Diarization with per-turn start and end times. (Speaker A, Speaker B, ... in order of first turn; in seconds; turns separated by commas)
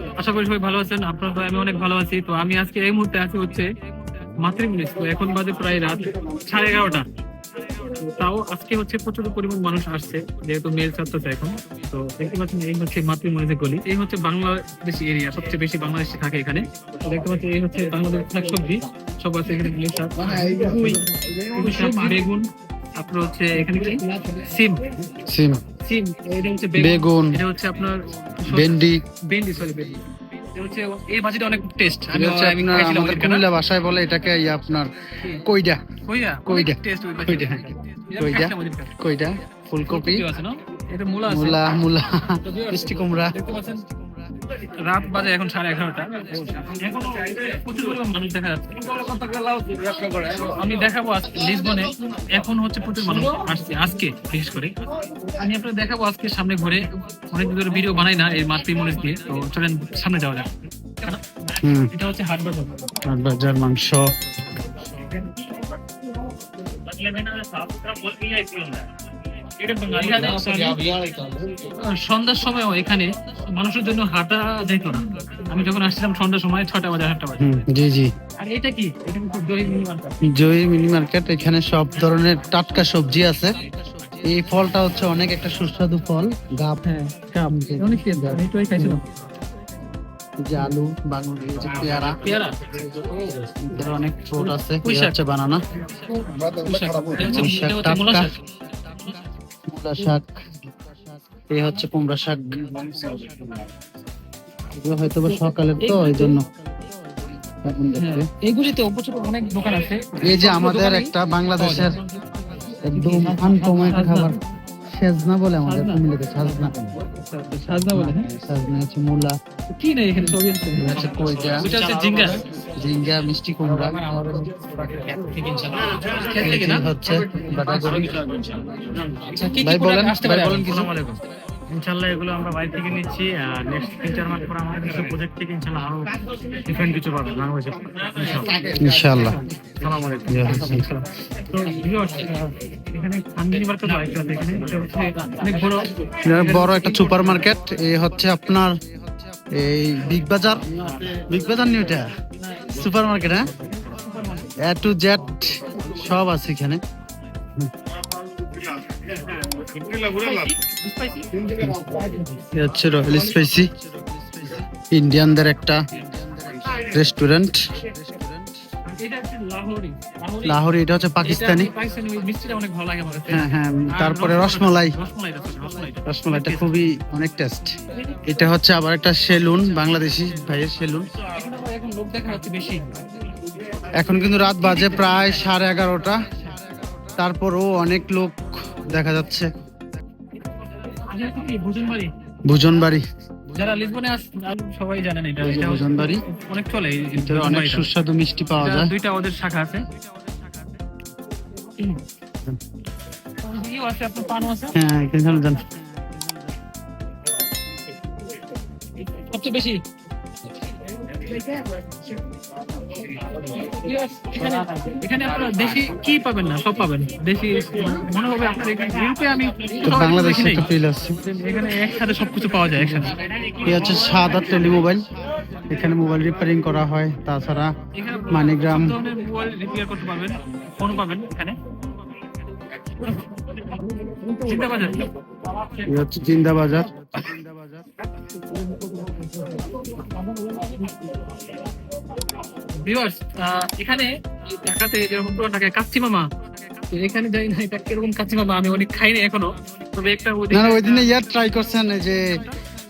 Speaker A: 0.2-3.7, Speaker A: 4.4-7.0, Speaker A: 7.8-24.8, Speaker B: 25.3-25.6, Speaker A: 25.8-30.0, Speaker B: 26.8-27.4, Speaker B: 28.5-29.0, Speaker A: 30.5-33.4, Speaker B: 32.1-35.8, Speaker A: 36.1-38.9, Speaker B: 36.5-40.2, Speaker A: 39.9-41.6, Speaker B: 41.3-43.3, Speaker A: 42.4-43.8, Speaker A: 44.6-49.3, Speaker A: 50.0-54.7, Speaker A: 55.3-60.5, Speaker B: 61.6-61.9, Speaker A: 61.9-62.8, Speaker B: 63.0-64.2, Speaker C: 67.5-68.8, Speaker A: 69.7-71.0, Speaker C: 70.3-71.5, Speaker A: 71.8-77.6, Speaker B: 77.4-78.1, Speaker A: 78.4-80.1, Speaker B: 80.2-83.5, Speaker B: 84.2-89.0, Speaker A: 86.8-87.2, Speaker A: 87.8-89.0, Speaker B: 90.4-92.2, Speaker A: 92.2-92.6, Speaker B: 93.6-95.6, Speaker A: 94.4-95.1, Speaker A: 95.9-98.3, Speaker B: 97.2-98.3, Speaker B: 99.7-100.4, Speaker B: 101.4-103.6, Speaker B: 104.7-106.5, Speaker A: 105.8-106.4, Speaker B: 107.5-108.3, Speaker A: 108.0-112.0, Speaker B: 110.2-111.9, Speaker B: 112.9-114.4, Speaker A: 112.9-114.4, Speaker B: 114.9-116.7, Speaker A: 115.7-116.0, Speaker A: 116.5-118.3, Speaker B: 117.9-119.3, Speaker A: 119.7-122.4, Speaker B: 120.8-121.7, Speaker C: 121.8-122.3, Speaker B: 122.8-124.0, Speaker C: 123.8-126.3, Speaker A: 126.0-128.0, Speaker B: 126.4-128.2, Speaker C: 127.8-129.1, Speaker A: 129.3-130.9, Speaker B: 129.6-130.9, Speaker C: 130.7-138.8, Speaker B: 138.8-139.4, Speaker C: 139.8-140.8, Speaker B: 140.3-140.8, Speaker A: 140.8-147.3, Speaker B: 146.2-148.8, Speaker B: 149.5-152.1, Speaker C: 150.9-151.2, Speaker B: 152.7-153.4, Speaker A: 153.9-154.5, Speaker B: 154.6-156.8, Speaker A: 159.9-162.4, Speaker B: 161.6-161.8, Speaker B: 162.5-168.6, Speaker A: 168.9-170.6, Speaker B: 170.4-171.7, Speaker A: 171.2-176.8, Speaker B: 173.3-174.9, Speaker B: 176.1-177.7, Speaker B: 178.2-181.1, Speaker A: 181.3-183.0, Speaker B: 183.9-186.2, Speaker A: 184.7-185.4, Speaker B: 187.2-189.5, Speaker A: 190.5-192.1, Speaker B: 192.5-193.0, Speaker A: 193.5-197.9, Speaker B: 195.4-196.2, Speaker B: 197.2-198.9, Speaker A: 198.6-199.8, Speaker A: 203.4-204.7, Speaker B: 204.7-205.7, Speaker A: 209.2-209.8, Speaker A: 213.4-220.7, Speaker B: 219.8-221.1, Speaker A: 221.2-223.1, Speaker B: 222.8-223.1, Speaker B: 223.6-225.1, Speaker A: 223.7-224.2, Speaker B: 225.7-227.7, Speaker A: 227.9-231.6, Speaker B: 228.3-228.9, Speaker A: 234.4-235.1, Speaker B: 235.8-237.9, Speaker A: 238.5-241.1, Speaker A: 242.8-251.1, Speaker B: 250.5-252.4